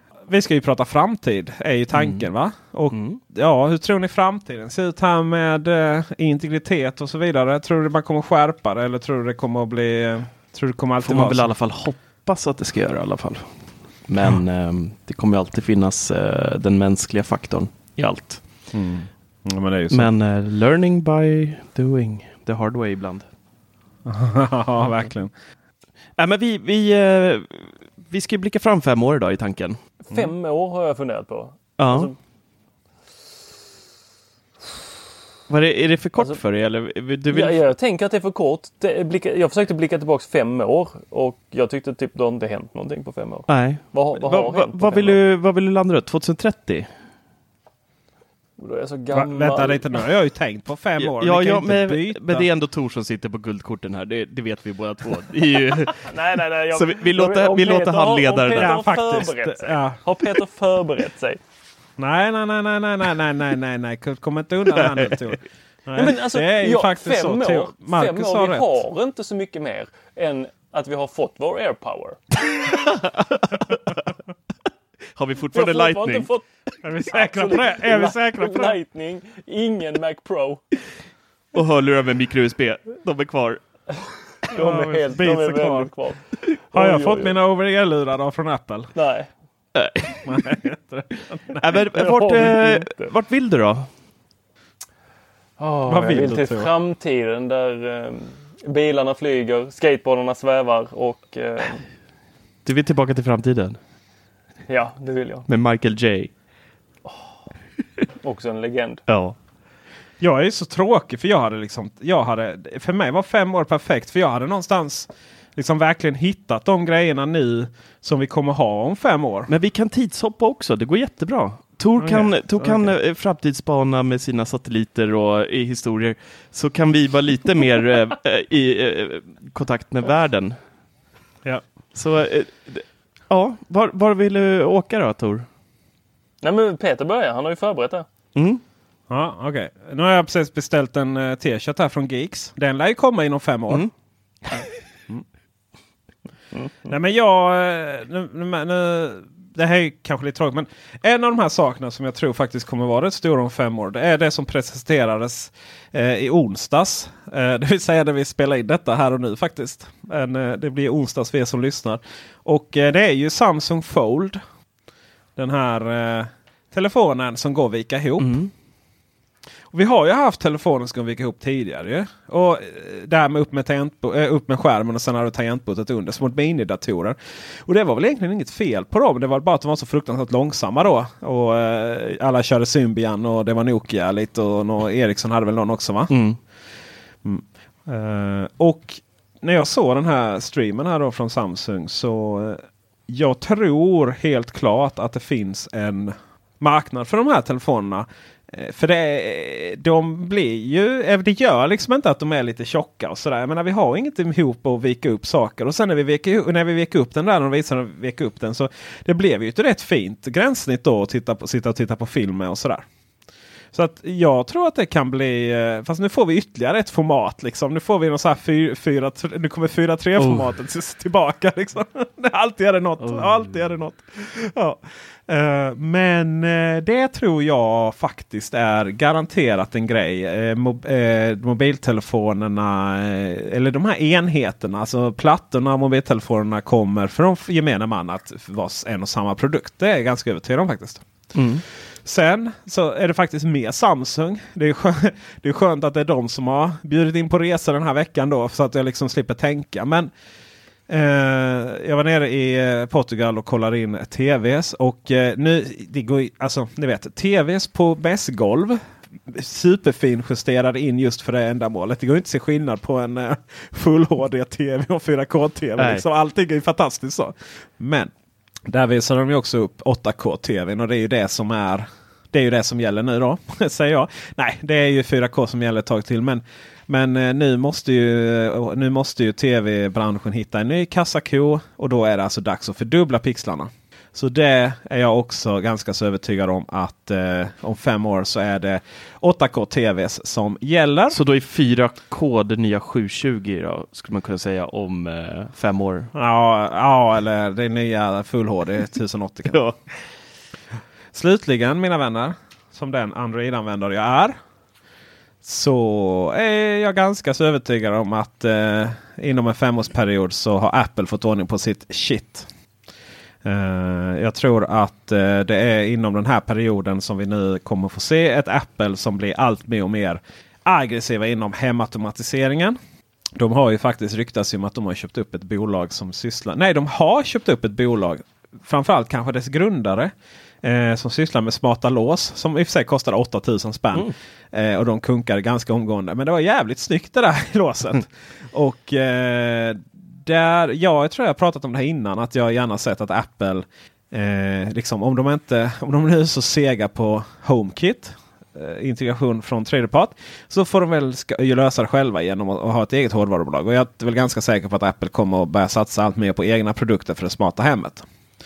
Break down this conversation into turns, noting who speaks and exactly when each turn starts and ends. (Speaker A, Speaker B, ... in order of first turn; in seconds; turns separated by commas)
Speaker A: 0.2-11.5, Speaker B: 1.9-2.2, Speaker B: 2.9-3.2, Speaker B: 11.0-18.4, Speaker A: 18.7-20.1, Speaker B: 19.9-23.3, Speaker A: 24.0-25.3, Speaker B: 26.2-29.8, Speaker C: 30.1-32.2, Speaker B: 31.8-32.1, Speaker B: 35.5-37.6, Speaker C: 37.3-45.2, Speaker B: 43.5-46.9, Speaker C: 48.6-49.9, Speaker A: 49.1-52.5, Speaker B: 51.0-56.1, Speaker C: 55.9-61.4, Speaker B: 56.7-58.8, Speaker A: 58.5-60.0, Speaker A: 62.0-68.7, Speaker B: 64.9-65.3, Speaker C: 66.0-72.2, Speaker B: 72.6-74.0, Speaker B: 75.2-76.3, Speaker C: 75.5-76.5, Speaker A: 76.8-78.8, Speaker C: 77.1-80.6, Speaker B: 81.5-83.6, Speaker C: 84.5-87.3, Speaker A: 84.5-85.9, Speaker A: 86.7-88.9, Speaker C: 88.9-89.3, Speaker B: 89.7-90.4, Speaker A: 90.2-91.8, Speaker B: 91.6-93.9, Speaker C: 92.0-93.1, Speaker C: 95.6-101.8, Speaker A: 95.9-96.7, Speaker B: 102.6-103.8, Speaker C: 104.7-105.5, Speaker B: 105.5-106.3, Speaker C: 108.2-109.0, Speaker B: 109.1-109.3, Speaker A: 110.2-119.5, Speaker B: 119.5-130.6, Speaker A: 122.0-122.9, Speaker B: 131.9-135.5, Speaker C: 136.4-138.1, Speaker B: 138.3-138.6, Speaker A: 139.1-143.8, Speaker A: 146.8-164.4, Speaker A: 165.3-168.4, Speaker B: 168.2-168.5, Speaker A: 169.7-186.2, Speaker B: 186.1-186.4, Speaker A: 187.2-212.8, Speaker A: 213.7-241.1, Speaker B: 220.2-220.5, Speaker B: 223.0-223.7, Speaker B: 241.3-241.6, Speaker A: 242.0-250.1, Speaker A: 250.9-268.1, Speaker B: 265.8-266.0, Speaker A: 268.7-291.2, Speaker B: 291.1-296.1, Speaker A: 296.1-299.6, Speaker A: 301.1-304.4, Speaker A: 305.4-312.5, Speaker A: 313.4-322.8, Speaker A: 323.4-358.1